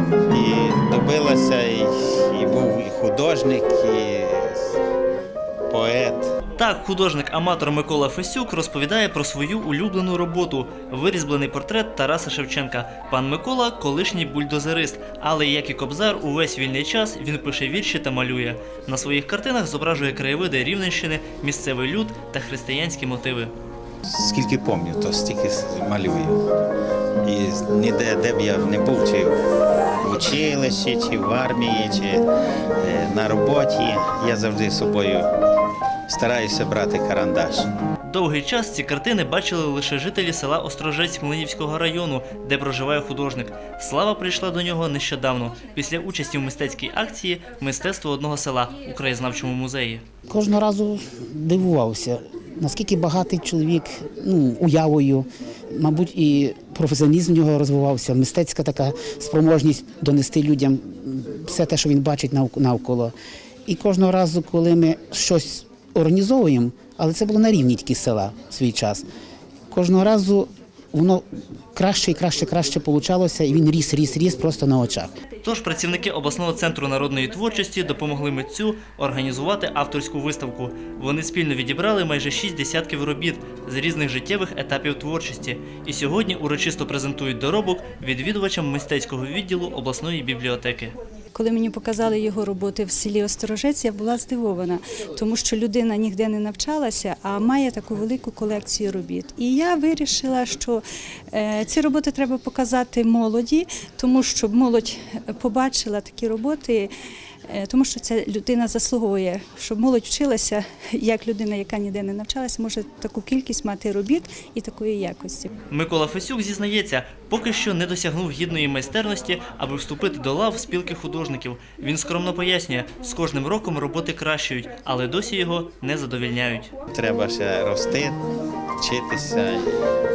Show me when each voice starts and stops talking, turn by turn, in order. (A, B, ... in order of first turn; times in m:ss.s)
0:00.3-0:04.7 A
0:05.7-0:06.3 A
0:06.6-0:23.5 B
0:24.0-0:26.4 A
0:27.2-0:29.4 A
0:29.9-0:32.2 A
0:32.8-0:35.3 A
0:36.1-0:37.7 A
0:38.0-0:50.0 B
0:50.3-1:03.1 C
1:03.6-1:09.0 C
1:09.7-1:11.2 C
1:11.7-1:15.1 C
1:15.4-1:30.9 B
1:31.3-1:46.9 D
1:47.5-1:55.5 D
1:55.7-2:06.7 B
2:06.9-2:08.2 A
2:08.8-2:09.7 A